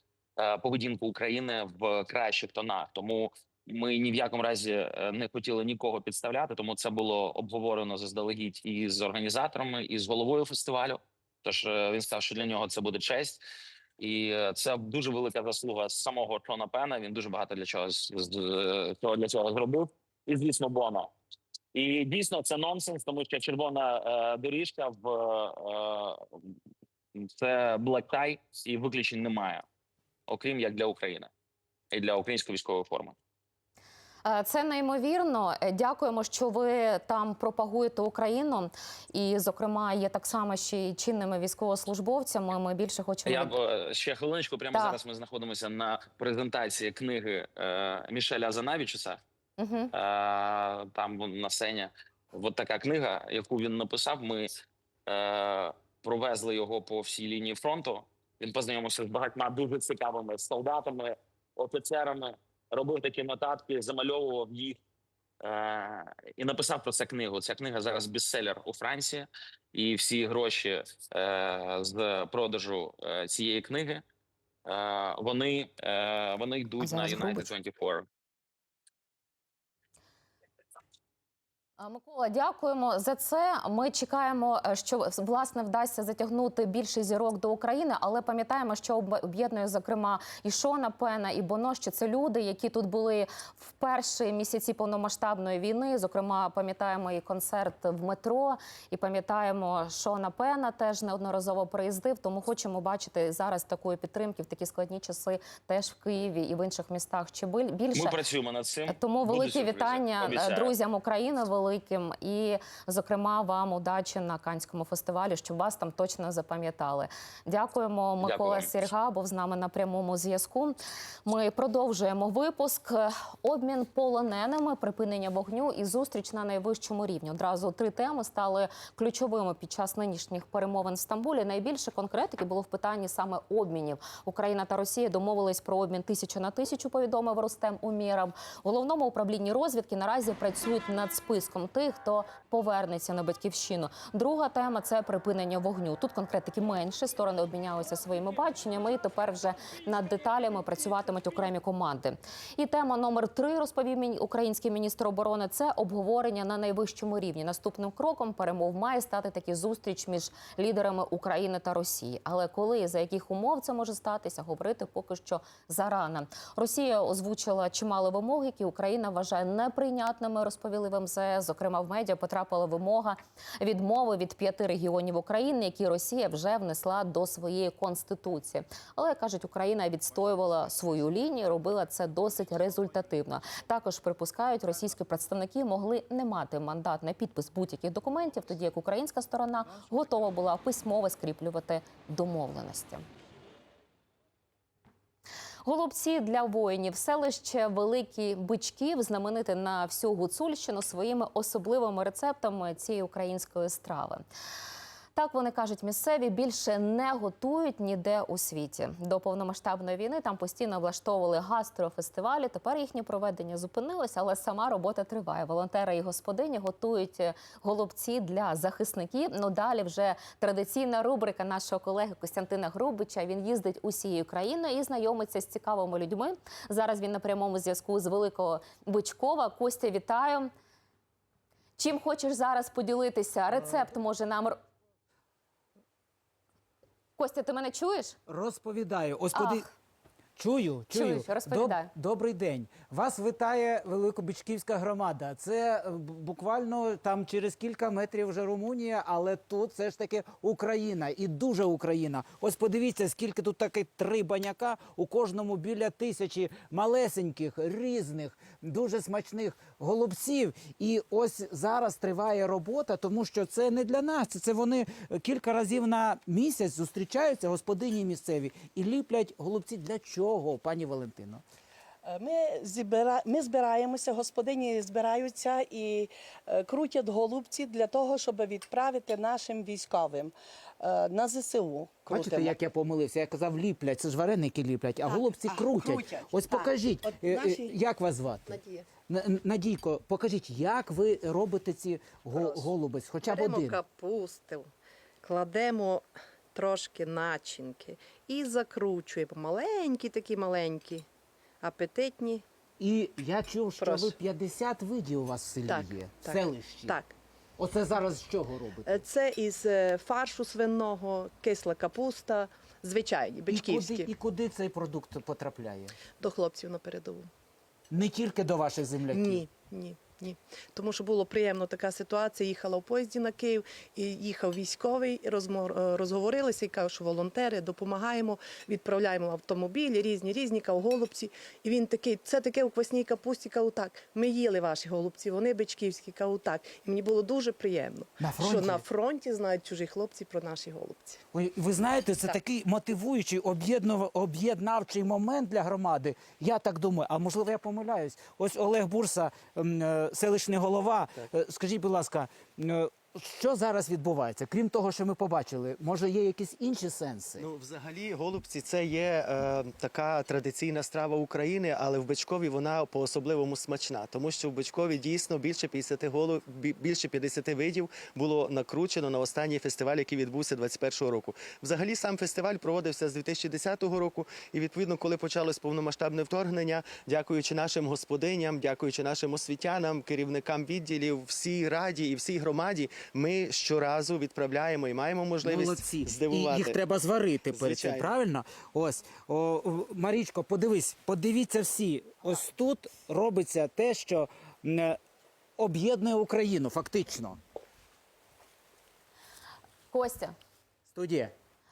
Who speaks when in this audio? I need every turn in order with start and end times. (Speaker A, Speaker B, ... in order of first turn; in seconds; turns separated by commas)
Speaker A: 0.4-13.4, Speaker A: 14.0-21.1, Speaker A: 21.7-26.4, Speaker A: 27.1-29.6, Speaker A: 30.3-31.3, Speaker A: 31.9-33.1, Speaker B: 34.2-43.5, Speaker A: 43.2-49.2, Speaker B: 49.6-49.9, Speaker A: 49.9-54.5, Speaker A: 55.1-64.8, Speaker A: 65.4-74.0, Speaker A: 74.7-78.0, Speaker B: 76.8-77.5, Speaker B: 81.8-108.2, Speaker A: 107.9-110.7, Speaker B: 108.9-193.0, Speaker A: 118.2-118.7, Speaker B: 195.6-204.2, Speaker B: 205.1-230.5, Speaker B: 231.8-234.6, Speaker B: 237.2-238.2, Speaker C: 238.3-239.7, Speaker B: 239.3-239.7, Speaker C: 240.4-271.4, Speaker B: 240.9-241.9, Speaker D: 272.2-276.0, Speaker D: 276.6-280.3, Speaker D: 280.9-281.9, Speaker C: 282.1-288.6, Speaker E: 288.5-288.8, Speaker C: 289.1-293.8, Speaker E: 292.3-292.7, Speaker E: 293.2-294.7, Speaker E: 295.2-301.1, Speaker E: 301.6-302.4, Speaker C: 302.8-307.0, Speaker E: 303.8-304.1, Speaker E: 305.7-307.1, Speaker C: 307.6-309.0, Speaker E: 308.9-314.1, Speaker C: 313.5-315.9, Speaker E: 316.2-317.3, Speaker C: 317.9-319.4, Speaker E: 319.1-341.2, Speaker C: 338.2-338.8, Speaker C: 341.3-357.4, Speaker F: 357.4-386.8, Speaker C: 385.4-395.0, Speaker F: 387.5-388.1, Speaker C: 395.6-397.4, Speaker B: 399.9-400.3, Speaker C: 400.9-401.3